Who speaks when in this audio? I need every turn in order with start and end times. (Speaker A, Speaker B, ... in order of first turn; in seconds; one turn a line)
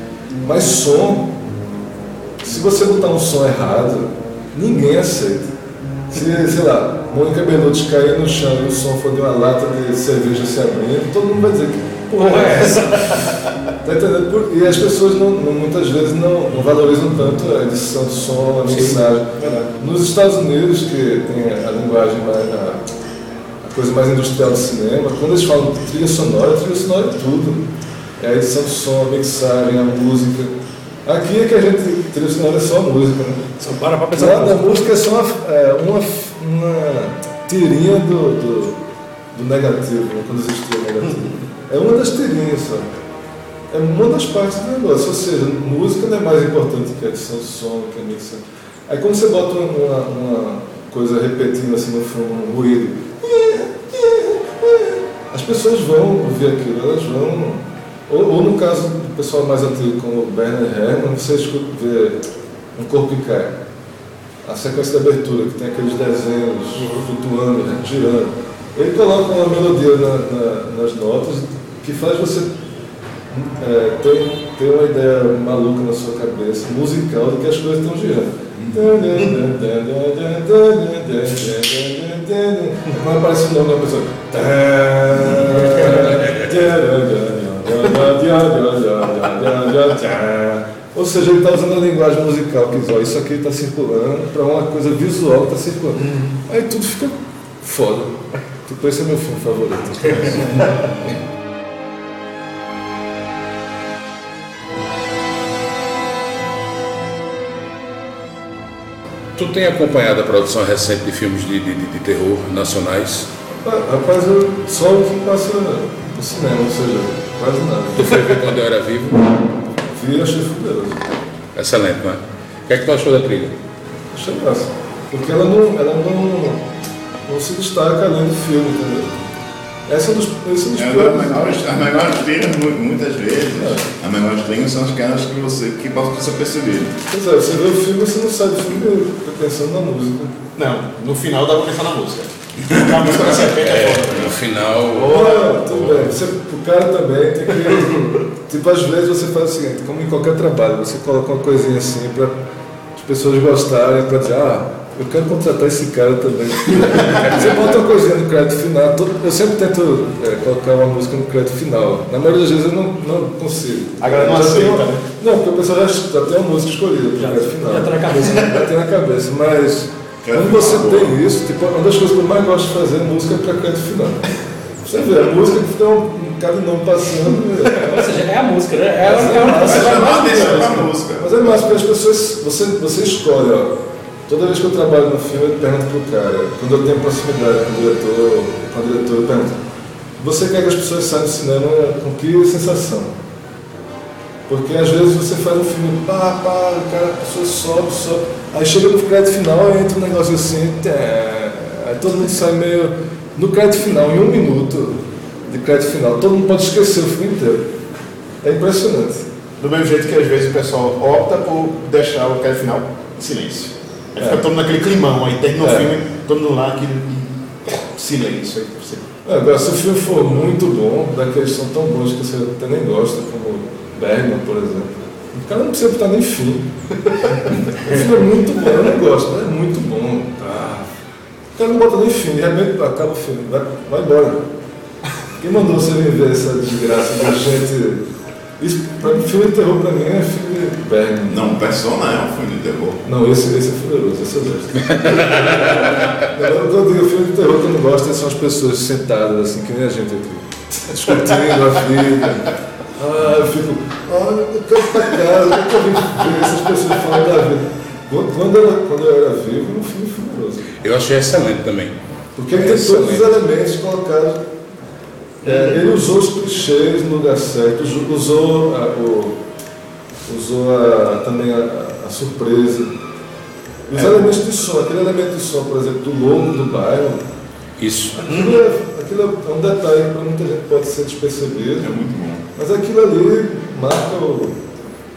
Speaker A: 0.4-1.3
Speaker A: 2.4-5.5
Speaker A: 6.1-13.3
Speaker B: 12.1-13.5
Speaker A: 13.8-22.8
Speaker B: 18.7-19.6
Speaker A: 23.6-27.6
Speaker A: 28.2-33.4
Speaker B: 33.6-34.9
Speaker A: 34.1-38.8
Speaker A: 39.3-42.9
Speaker A: 43.7-62.2
Speaker A: 62.7-63.6
Speaker A: 64.4-72.5
Speaker A: 73.3-100.9
Speaker C: 78.5-78.8
Speaker C: 85.2-85.5
Speaker D: 85.7-86.5
Speaker E: 96.0-96.3
Speaker D: 109.3-113.3
Speaker A: 113.6-118.4
Speaker D: 117.9-119.3
Speaker A: 119.8-121.1
Speaker D: 121.5-123.5
Speaker A: 124.1-126.7
Speaker A: 127.2-129.2
Speaker A: 129.9-131.6
Speaker C: 130.7-136.9
Speaker A: 133.6-133.8
Speaker A: 137.1-140.4
Speaker E: 140.6-144.4
Speaker D: 143.2-145.9
Speaker E: 144.9-145.6
Speaker A: 145.0-152.4
Speaker A: 152.9-174.2
Speaker E: 164.0-165.0
Speaker B: 167.2-168.7
Speaker C: 170.2-171.1
Speaker A: 174.8-178.2
Speaker B: 177.7-180.8
Speaker A: 179.0-183.7
Speaker C: 179.4-181.6
Speaker A: 184.3-189.6
Speaker A: 190.2-193.1
Speaker A: 194.5-207.7
Speaker A: 208.4-209.2
Speaker E: 209.6-219.1
Speaker A: 214.2-214.4
Speaker A: 215.6-215.9
Speaker A: 219.2-230.9
Speaker A: 231.5-234.5
Speaker A: 235.4-238.0
Speaker A: 238.6-241.4
Speaker C: 241.3-243.0
Speaker A: 243.0-260.7
Speaker D: 244.8-245.9
Speaker D: 260.8-261.9
Speaker A: 262.4-264.5
Speaker D: 262.5-263.3
Speaker A: 265.4-269.4
Speaker A: 270.2-272.9
Speaker A: 273.9-277.2
Speaker D: 277.8-278.2
Speaker A: 278.1-281.9
Speaker E: 278.2-278.5
Speaker C: 281.8-282.4
Speaker A: 282.6-284.6